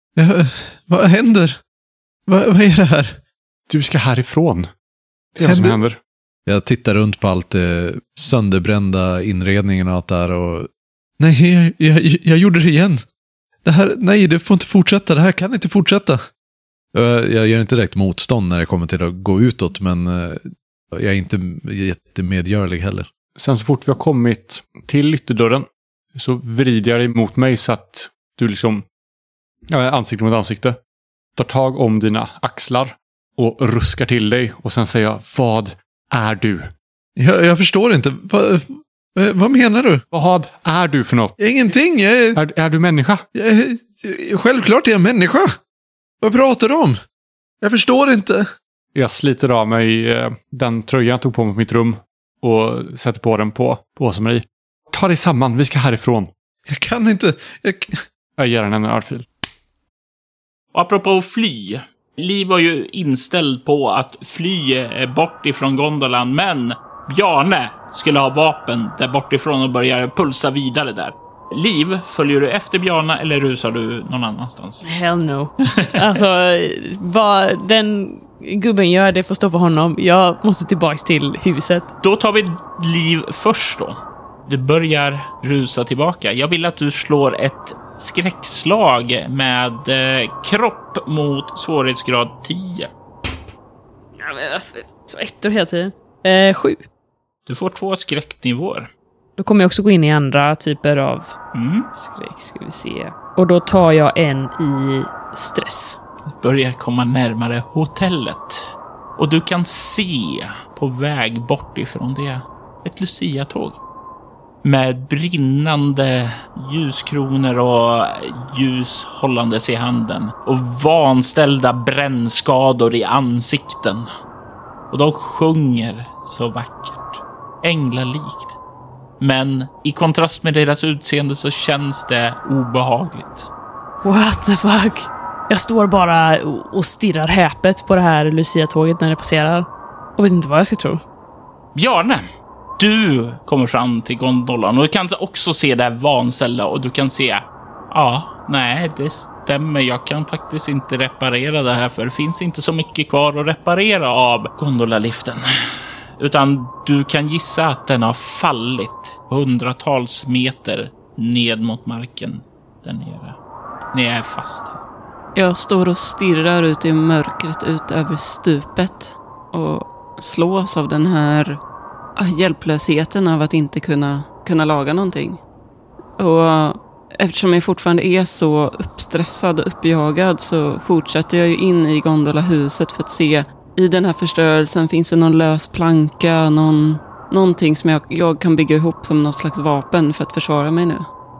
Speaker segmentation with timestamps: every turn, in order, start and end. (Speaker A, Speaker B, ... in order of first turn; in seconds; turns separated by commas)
Speaker A: 0.1-1.6, Speaker A: 2.3-3.2, Speaker B: 3.7-4.7, Speaker B: 5.3-6.0, Speaker A: 5.4-5.8, Speaker A: 6.5-13.0, Speaker A: 13.6-16.2, Speaker A: 16.9-23.1, Speaker B: 23.4-28.8, Speaker B: 29.7-30.8, Speaker B: 31.4-36.7, Speaker A: 37.1-40.0, Speaker B: 40.1-41.4, Speaker A: 41.4-42.4, Speaker B: 42.3-43.2, Speaker A: 43.3-45.6, Speaker A: 46.2-47.0, Speaker A: 47.6-48.5, Speaker B: 48.9-56.3, Speaker A: 56.6-58.0, Speaker B: 58.4-59.2, Speaker C: 60.7-74.8, Speaker D: 74.8-81.9, Speaker C: 75.6-75.9, Speaker C: 82.0-92.9, Speaker D: 94.2-96.8, Speaker C: 97.5-98.9, Speaker D: 99.4-101.3, Speaker C: 101.5-101.9, Speaker D: 101.9-106.0, Speaker C: 106.3-108.6, Speaker C: 109.2-113.8, Speaker C: 114.6-124.1, Speaker C: 124.9-128.6, Speaker C: 129.2-133.5, Speaker D: 134.0-141.0, Speaker C: 141.7-142.2, Speaker C: 142.8-155.5, Speaker C: 156.2-163.3, Speaker C: 163.9-164.8, Speaker E: 165.3-171.6, Speaker E: 172.2-175.4, Speaker E: 176.2-191.1